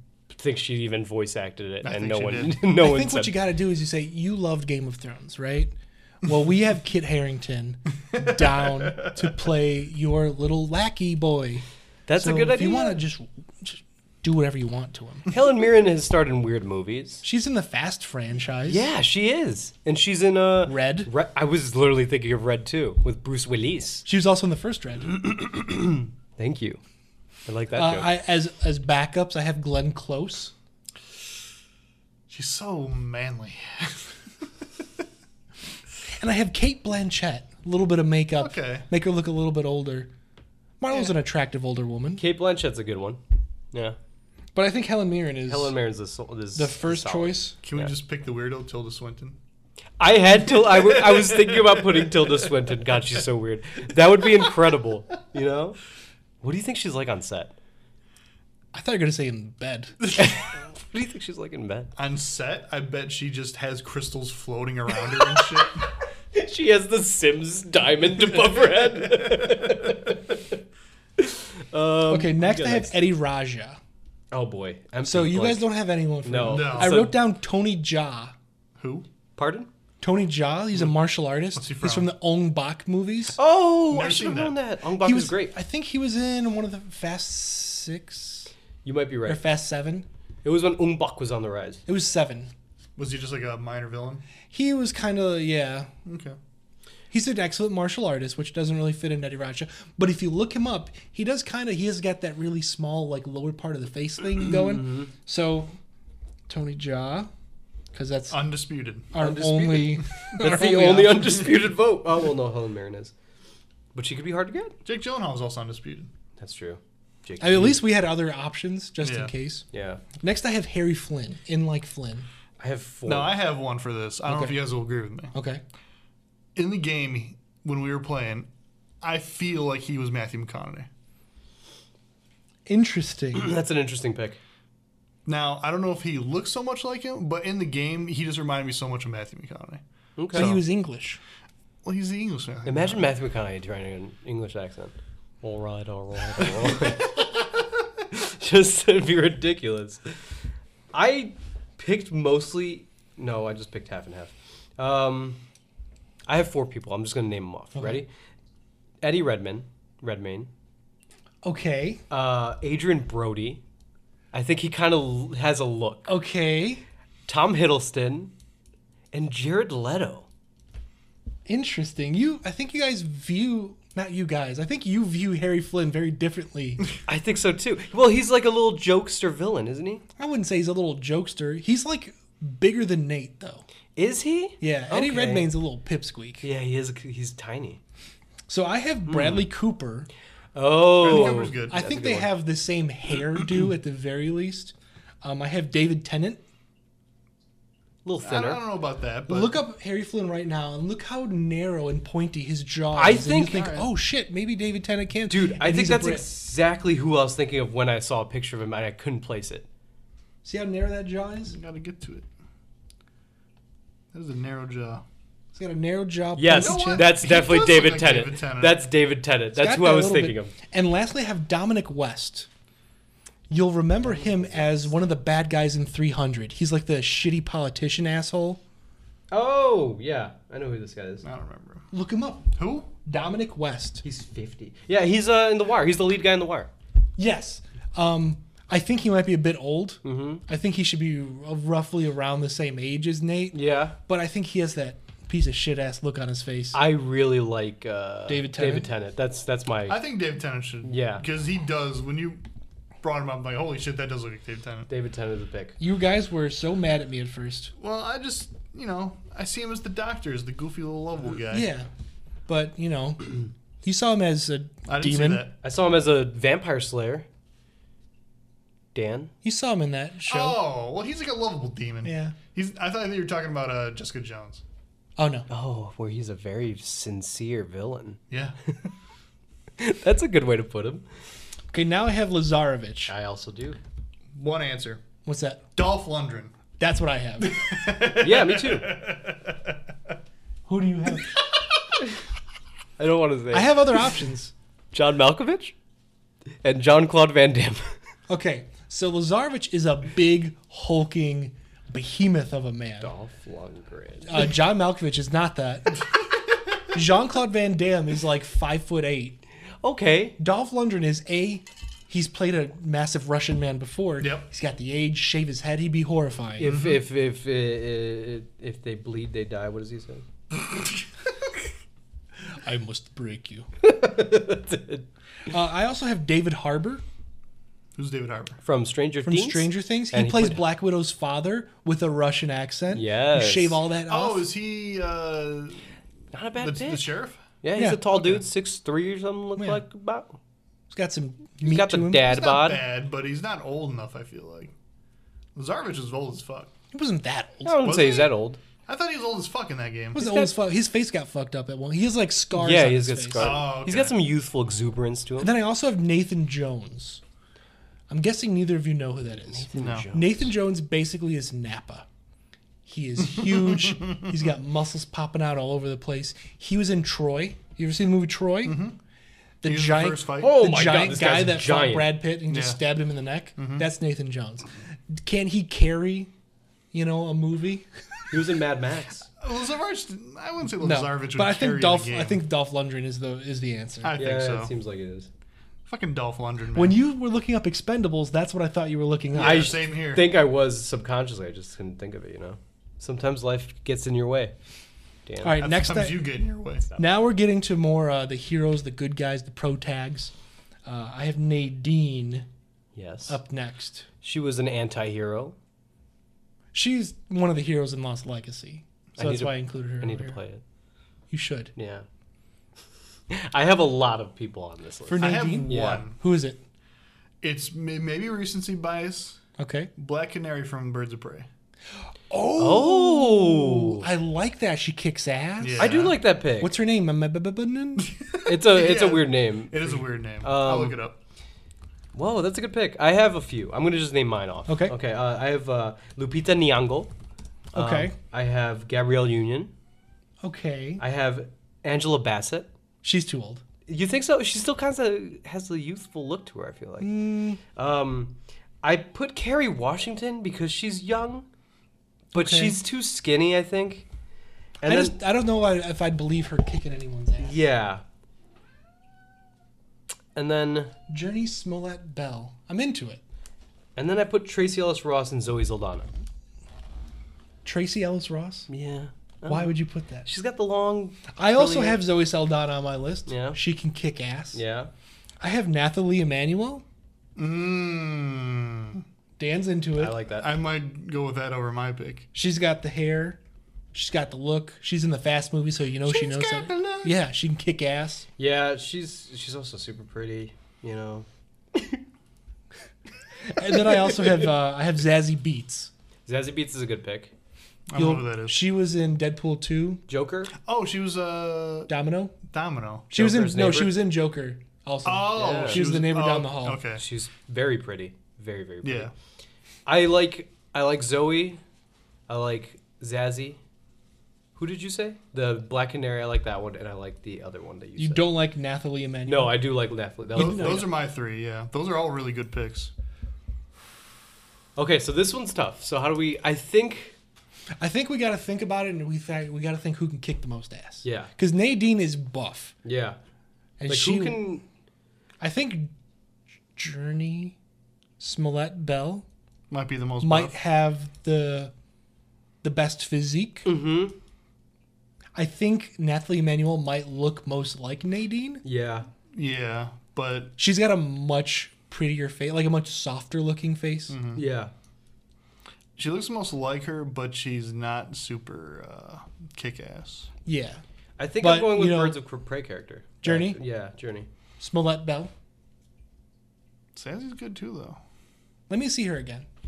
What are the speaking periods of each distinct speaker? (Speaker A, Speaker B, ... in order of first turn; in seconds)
Speaker A: 0.3-3.3, 12.1-13.0, 15.3-17.2, 18.6-24.0, 25.1-26.8, 27.4-28.1, 42.2-43.2, 43.7-44.0, 45.5-47.9, 50.0-55.8, 56.4-57.5, 60.1-61.9, 65.2-65.6, 66.3-70.5, 71.2-73.0, 74.3-75.7, 76.2-77.1, 79.4-79.7, 83.4-85.5, 88.8-89.4, 90.4-91.8, 104.5-105.1, 109.2-113.1, 113.9-114.8, 116.4-117.8, 119.7-120.0, 122.6-123.3, 133.3-134.4, 140.2-140.5, 142.7-147.2, 148.1-150.2, 150.9-155.4, 156.3-158.1, 159.0-160.5, 162.1-163.6, 164.3-166.1, 167.3-168.3, 169.1-170.3, 177.1-180.0, 183.9-185.5, 186.4-187.8, 189.1-189.5, 190.5-192.2, 198.0-198.6, 202.9-203.8, 205.3-209.7, 216.3-220.5, 224.0-224.9, 229.3-231.2, 234.0-236.7, 240.0-240.4, 243.5-243.9, 246.7-250.0, 250.8-251.2, 254.9-255.8, 265.6-267.2, 268.9-269.3, 275.5-278.2, 279.8-281.1, 283.1-283.8, 288.2-288.9, 293.0-293.9, 294.9-295.7, 296.6-297.9, 303.0-304.5, 309.8-310.4, 316.6-320.2, 323.8-325.1, 328.6-330.6, 332.9-333.8, 336.3-337.1, 337.6-340.4, 341.6-342.8, 347.6-348.6, 350.1-350.5, 352.5-355.5, 359.5-360.5, 370.4-372.2, 378.3-379.3, 384.1-385.3, 389.4-394.5, 395.2-395.6, 402.9-403.4, 404.2-405.6, 409.2-410.6, 411.7-412.1, 413.3-416.1, 422.6-424.1, 425.8-426.7, 428.4-431.0, 432.1-437.1, 437.7-439.7, 441.0-442.7, 443.9-451.5, 452.3-454.1, 454.8-455.1, 457.4-458.0, 460.3-460.9, 463.9-466.1, 468.7-472.0, 473.3-473.6, 474.5-474.9, 480.0-480.5, 488.4-492.0, 493.6-494.5, 496.3-497.3, 500.1-500.5, 503.1-504.0, 505.3-505.9, 507.0-509.1, 509.9-511.6, 512.3-513.6, 514.5-518.3, 519.2-520.9, 524.8-527.1, 531.0-531.3, 532.8-533.2, 533.9-534.6, 543.6-544.1, 548.6-549.1, 554.3-554.7, 561.2-564.3
Speaker B: 1.8-2.6, 8.7-9.1, 32.3-34.1, 38.4-38.9, 47.6-49.4, 50.8-51.7, 62.0-65.9, 68.3-69.9, 76.5-77.0, 78.8-79.0, 81.5-82.1, 83.9-84.6, 93.0-94.2, 96.0-96.4, 108.3-109.1, 114.8-116.1, 119.0-119.3, 123.0-125.3, 126.5-128.5, 129.0-130.9, 135.2-139.8, 140.3-140.6, 141.8-143.1, 191.0-192.2, 198.2-199.6, 211.5-212.3, 214.1-215.0, 216.5-218.8, 231.2-231.9, 232.6-232.9, 249.9-252.4, 253.0-254.9, 257.8-261.7, 264.9-265.5, 270.3-274.6, 278.3-278.6, 284.3-285.0, 285.8-286.5, 287.4-289.7, 314.2-314.5, 316.7-317.0, 327.9-328.6, 334.1-335.9, 336.6-337.4, 338.1-338.4, 342.2-344.7, 345.5-346.7, 347.8-348.3, 348.8-350.2, 353.4-354.2, 359.8-360.1, 363.2-364.3, 368.6-369.0, 369.6-370.6, 372.5-372.8, 373.6-373.9, 379.4-382.4, 384.0-384.7, 385.9-387.0, 389.3-390.2, 395.6-396.9, 415.2-416.2, 417.4-419.4, 420.0-421.5, 425.6-426.2, 428.0-431.2, 477.4-479.0, 480.4-482.3, 486.1-487.1, 497.9-498.6, 500.6-501.9, 502.5-503.1, 505.0-507.0, 508.8-509.1, 520.3-522.9, 539.7-540.5, 549.3-550.5, 554.1-554.4, 556.0-560.3, 567.0-568.0
Speaker C: 2.7-11.6, 12.2-15.3, 17.2-18.9, 20.6-21.1, 24.1-25.1, 27.7-30.5, 36.1-40.1, 40.8-42.2, 44.5-45.8, 46.5-47.5, 58.7-60.0, 72.1-73.8, 75.0-78.3, 80.0-83.4, 85.0-88.5, 89.2-90.1, 91.9-92.5, 94.5-95.9, 97.1-105.8, 106.5-107.3, 107.9-108.4, 109.1-111.5, 117.4-119.6, 120.2-122.3, 124.3-124.6, 125.3-125.6, 132.7-133.5, 140.3-141.2, 157.7-158.0, 161.4-162.0, 166.1-166.8, 171.5-176.8, 180.2-183.7, 184.6-186.4, 188.5-190.1, 191.1-196.4, 199.3-206.2, 210.4-211.5, 215.5-217.1, 219.6-222.5, 223.5-228.6, 231.9-232.5, 233.0-234.0, 237.2-246.8, 248.3-248.9, 255.8-257.7, 261.5-261.9, 262.5-265.5, 269.4-270.6, 272.0-272.4, 275.2-275.5, 281.7-283.1, 285.2-285.6, 286.8-287.6, 290.6-291.3, 293.5-294.5, 298.3-303.1, 304.2-306.0, 306.9-309.4, 310.4-316.7, 322.6-323.7, 325.5-327.0, 329.2-334.5, 337.8-338.0, 339.6-339.8, 340.9-342.4, 346.9-347.9, 350.1-353.6, 355.4-357.2, 358.1-362.1, 362.9-368.8, 369.6-376.3, 376.9-377.9, 380.8-384.2, 386.7-389.8, 395.4-396.3, 397.0-400.3, 400.8-402.4, 403.3-404.1, 406.7-410.4, 411.3-411.7, 415.1-416.6, 419.6-419.9, 422.3-428.1, 434.7-434.9, 437.7-438.1, 440.4-441.0, 443.0-443.6, 447.0-447.6, 452.3-452.8, 454.8-457.6, 461.1-463.2, 467.6-468.7, 469.4-470.3, 471.3-474.6, 475.4-476.8, 479.4-480.2, 482.3-483.4, 483.9-488.2, 493.5-495.9, 497.9-500.0, 501.9-502.3, 503.1-506.8, 518.0-519.6, 520.3-520.9, 527.8-532.7, 533.8-534.4, 535.4-535.9, 536.7-537.5, 538.2-539.2, 540.2-541.7, 542.6-543.6, 545.3-548.6, 550.6-554.2, 560.4-560.8, 561.4-562.2, 563.2-563.6, 564.6-565.3, 568.7-569.5